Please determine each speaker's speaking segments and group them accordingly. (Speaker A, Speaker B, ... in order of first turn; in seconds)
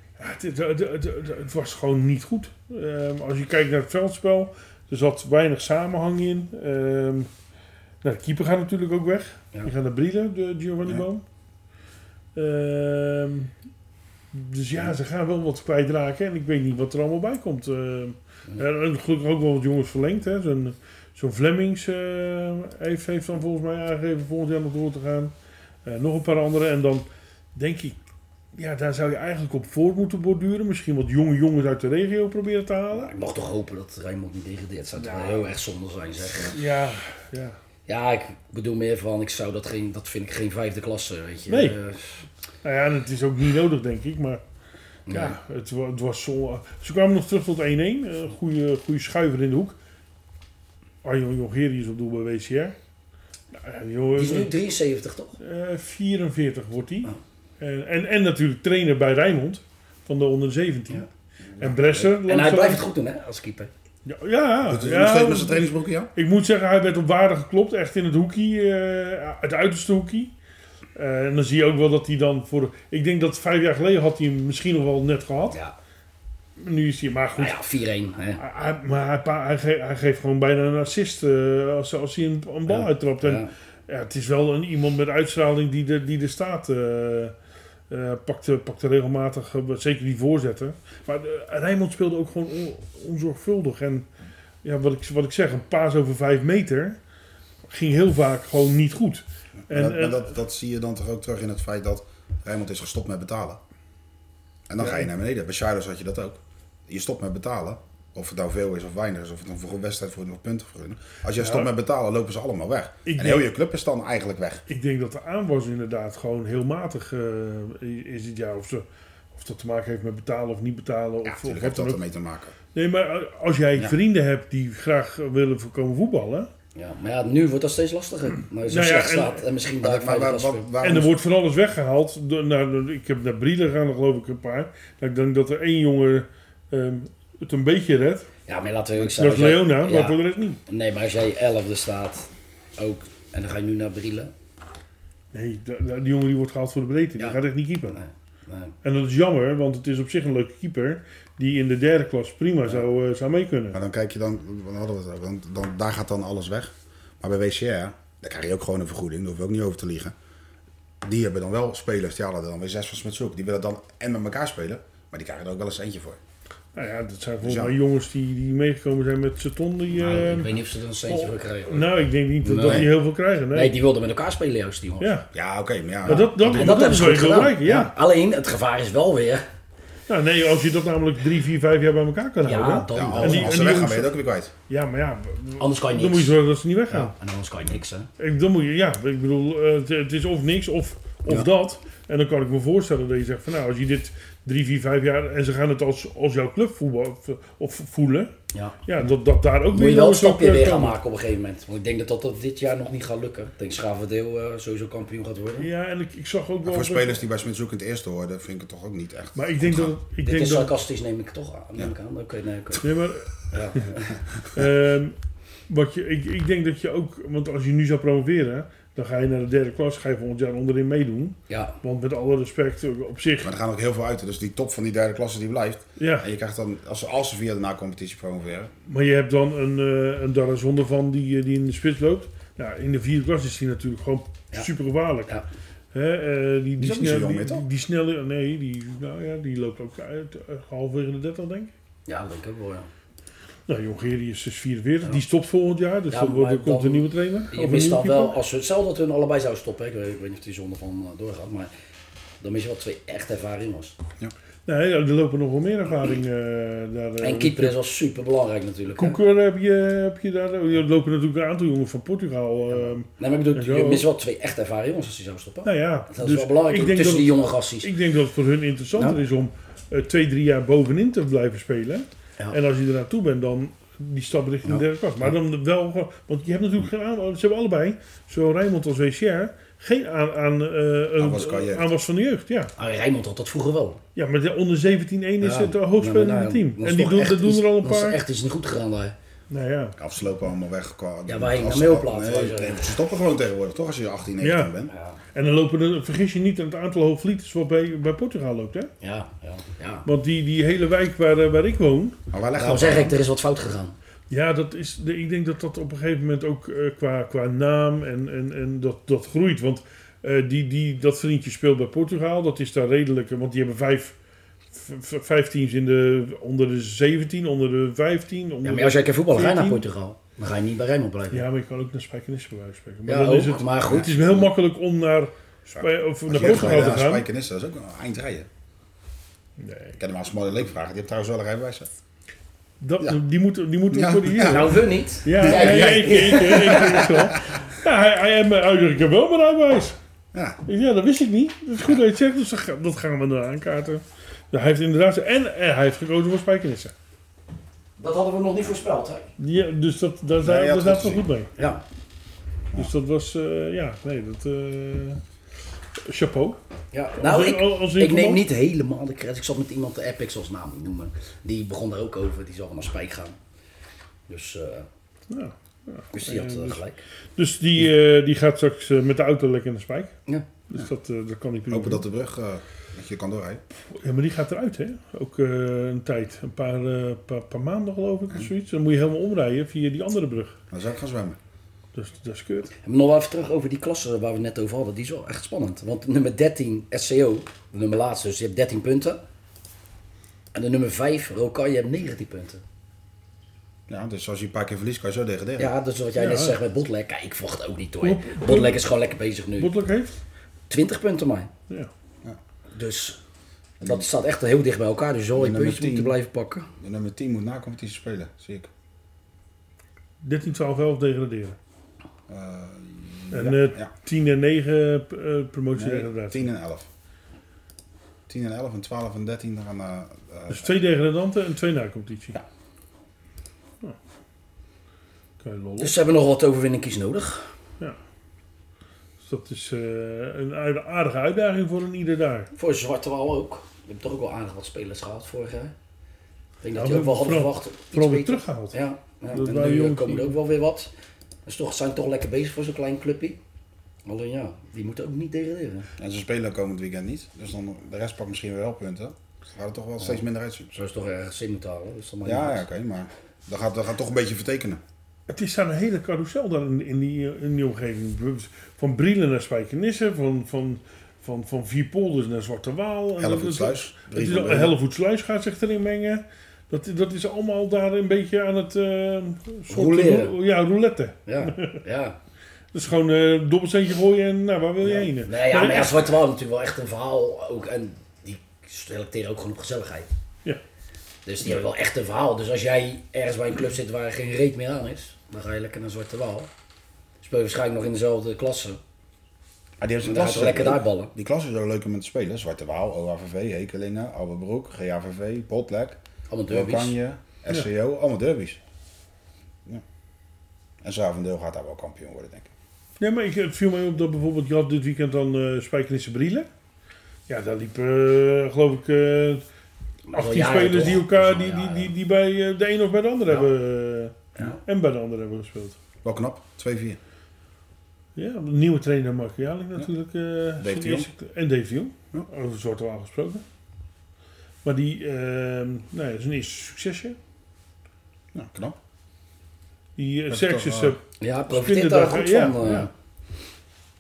Speaker A: 0.2-7.3, 8.0-11.2, 12.3-13.5, 14.3-25.3, 25.9-28.0, 28.5-33.1, 35.0-35.5, 36.5-37.6, 41.5-41.8, 42.6-44.4, 45.1-49.8, 51.0-52.8, 53.5-54.5, 55.4-61.1, 61.6-62.8, 64.0-70.3, 71.0-75.6, 76.6-77.6, 78.4-87.3, 87.9-94.1, 94.6-97.0, 97.7-100.3, 104.8-105.1, 111.4-111.7, 113.1-113.5, 114.7-122.0, 122.7-126.5, 128.7-129.5, 130.8-138.3, 139.0-140.6, 145.3-148.0, 148.8-153.8, 166.8-170.5, 171.1-173.7, 175.0-175.3, 176.1-177.9, 180.1-184.1, 184.7-187.1, 188.2-198.3, 198.9-201.0, 205.6-207.2, 209.4-210.7, 212.8-213.9, 214.5-215.2, 215.7-223.5, 226.0-226.3, 228.9-235.3, 235.9-241.7, 243.7-248.4, 254.7-257.8, 259.0-264.1, 265.6-282.7, 284.2-288.2, 289.5-290.0, 294.4-294.8, 295.3-298.9, 300.1-302.2, 304.3-314.1, 314.7-319.8, 321.3-327.3, 329.6-330.0, 332.8-340.0, 340.7-346.9, 349.4-351.5, 352.8-355.2, 356.1-356.6, 357.2-358.4, 365.3-366.8, 367.4-370.1, 370.7-372.0, 373.9-380.6, 381.9-382.7, 396.2-396.6, 398.0-398.8, 399.6-400.2, 410.2-411.6, 413.3-416.5, 420.5-422.4, 425.4-425.9, 429.2-432.5, 436.8-438.8, 439.3-440.4, 455.3-471.8, 472.7-476.1, 503.0-506.5, 507.3-509.4, 510.1-515.8, 518.2-523.4, 524.6-527.2, 530.0-532.9
Speaker B: 32.9-36.6, 37.9-42.2, 45.1-45.4, 54.1-55.4, 61.9-63.7, 75.5-75.8, 77.4-78.4, 82.7-83.5, 126.8-130.7, 138.5-144.3, 147.9-148.8, 169.9-172.9, 173.5-175.1, 176.1-179.4, 182.4-183.6, 185.6-186.4, 186.9-188.1, 198.5-198.8, 199.7-205.7, 210.2-212.9, 213.5-214.1, 221.5-221.8, 242.1-242.9, 246.1-251.7, 252.4-253.9, 257.2-259.2, 262.7-267.9, 274.6-275.3, 282.8-284.0, 285.4-289.1, 291.3-292.9, 294.9-295.2, 299.0-300.1, 302.6-303.9, 318.6-321.4, 323.1-324.5, 334.4-337.1, 348.0-349.3, 351.6-351.8, 356.9-363.4, 364.3-364.9, 366.1-367.0, 382.8-389.2, 390.5-392.6, 395.6-399.7, 400.7-401.5, 402.7-403.2, 403.8-406.7, 425.8-427.5, 432.6-435.7, 436.6-440.9, 441.5-443.4, 444.1-445.9, 450.7-452.7, 469.7-470.3, 471.3-472.2, 474.8-480.1, 481.2-486.5, 487.2-488.8, 490.0-491.1, 496.3-497.0, 510.1-511.9, 531.2-532.9
Speaker C: 64.6-66.1, 99.7-103.6, 104.7-114.6, 121.2-122.5, 129.8-131.1, 153.7-160.2, 161.0-166.2, 167.4-167.8, 175.3-176.7, 182.9-184.5, 206.7-209.9, 223.4-228.7, 236.8-237.7, 281.2-281.9, 290.0-294.9, 302.3-303.2, 325.7-328.5, 330.0-331.9, 333.9-334.7, 335.4-337.2, 340.3-340.6, 350.4-351.3, 371.7-373.6, 380.7-381.4, 393.9-395.7, 405.4-406.2, 406.8-408.7, 412.3-413.9, 415.8-416.9, 418.3-420.8, 446.0-450.8, 452.2-454.8, 463.2-464.8, 489.8-496.0, 496.5-498.6, 500.8-502.5, 516.0-517.0, 520.6-521.1, 528.3-528.8, 530.3-531.0